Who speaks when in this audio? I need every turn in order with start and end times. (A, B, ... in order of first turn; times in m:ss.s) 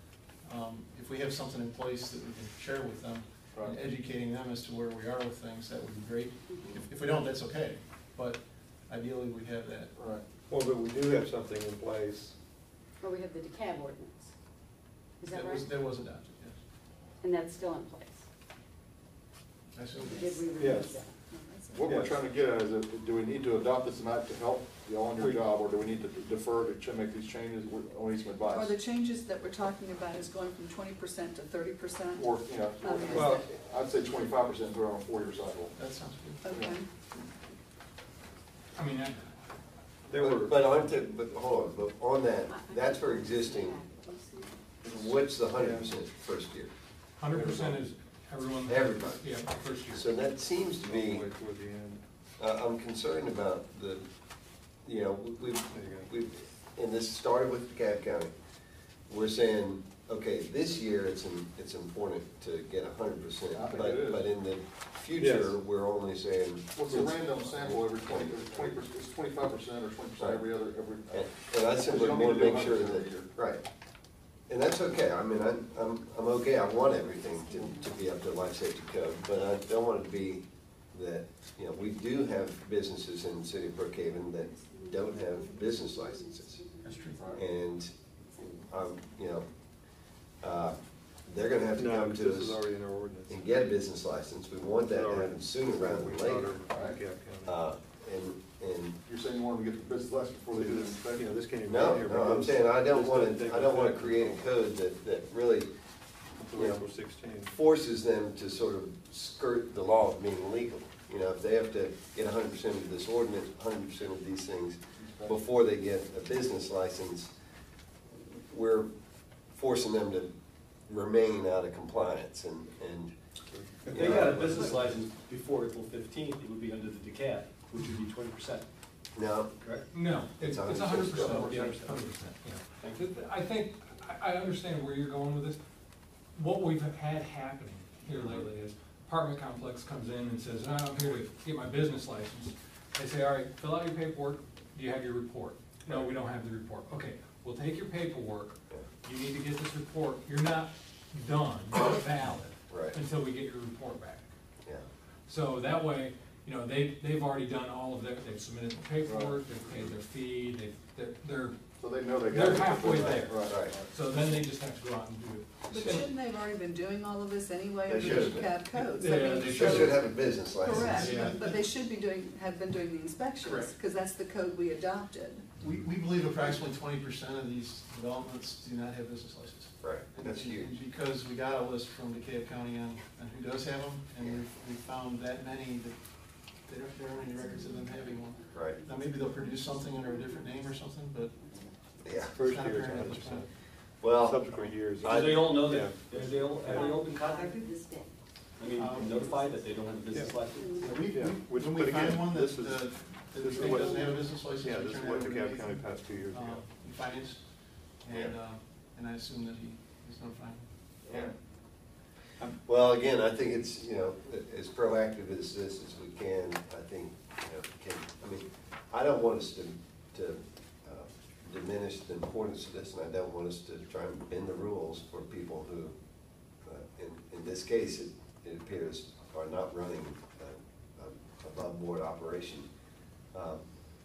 0:00.4-0:09.9 A
0:06.5-0:06.8 B
0:10.0-0:10.2 C
0:10.5-0:12.4 D
0:13.0-0:14.3 B
0:15.2-0:15.8 B
0:15.2-0:16.6 A
0:17.2-0:18.2 B
0:19.7-0:20.5 A
0:20.0-0:21.2 B
0:20.6-0:21.0 D
0:21.3-0:21.8 E
0:21.8-0:28.8 C
0:21.8-0:22.1 D
0:28.6-0:32.3 E
0:32.1-0:35.8 C
0:32.8-0:33.3 E
0:33.1-0:33.5 D
0:35.8-0:36.6 A
0:36.4-0:36.9 E
0:36.5-0:36.8 C
0:38.8-0:39.3 F
0:40.1-0:40.8 D
0:40.1-0:43.8 G
0:42.5-0:44.6 B
0:44.8-0:46.7 G
0:45.5-0:45.9 D
0:47.2-0:50.1 F
0:48.6-0:49.3 G
0:49.9-0:51.3 G
0:50.8-0:52.0 D
0:52.4-0:54.1 G
0:54.8-0:58.3 G
0:55.7-0:56.1 D
0:59.1-1:08.7 G
1:03.5-1:04.3 C
1:05.2-1:05.6 D
1:06.7-1:13.3 C
1:10.2-1:10.4 G
1:11.1-1:13.6 G
1:14.5-1:26.6 G
1:17.2-1:17.9 B
1:24.5-1:27.0 B
1:26.8-1:27.3 A
1:27.1-1:27.4 C
1:27.3-1:27.9 G
1:28.2-1:29.1 B
1:28.4-1:29.5 G
1:30.4-1:32.6 G
1:31.7-1:33.4 D
1:33.3-1:36.6 G
1:34.8-1:37.6 D
1:36.7-1:37.0 C
1:37.4-1:39.0 G
1:39.0-1:41.2 C
1:40.5-1:44.5 D
1:41.6-1:45.7 G
1:46.5-1:46.8 G
1:46.5-1:47.5 D
1:47.4-1:57.3 G
1:55.0-1:55.4 C
1:58.1-1:58.9 G
1:59.5-2:00.3 G
2:00.8-2:03.1 G
2:03.5-2:04.4 D
2:03.9-2:08.7 H
2:03.9-2:04.4 G
2:09.1-2:09.5 G
2:09.6-2:09.8 H
2:09.9-2:15.6 F
2:10.4-2:11.5 G
2:11.3-2:12.0 H
2:12.8-2:13.1 H
2:16.3-2:34.3 F
2:18.1-2:18.4 G
2:32.7-2:33.0 G
2:35.3-2:41.6 F
2:39.0-2:39.9 C
2:41.8-2:43.9 C
2:42.3-2:46.1 F
2:42.8-2:43.8 G
2:45.7-2:49.8 E
2:45.7-2:46.0 G
2:47.8-2:48.5 G
2:48.2-2:51.4 F
2:49.5-2:51.2 G
2:50.6-2:55.4 E
2:51.0-2:51.6 A
2:53.4-2:53.7 F
2:55.6-3:11.6 A
2:59.8-3:00.7 G
3:07.1-3:11.8 B
3:08.5-3:08.8 G
3:12.0-3:12.4 G
3:12.2-3:13.5 D
3:12.4-3:13.4 A
3:14.0-3:15.5 G
3:14.1-3:16.2 D
3:15.0-3:17.7 H
3:16.6-3:18.1 B
3:18.6-3:20.7 H
3:18.7-3:19.5 A
3:18.9-3:19.5 B
3:20.1-3:20.4 D
3:20.5-3:21.1 B
3:20.7-3:30.7 A
3:21.0-3:26.7 D
3:23.9-3:24.2 B
3:28.1-3:28.3 G
3:32.6-3:46.0 G
3:46.6-3:52.7 G
3:53.3-3:53.6 G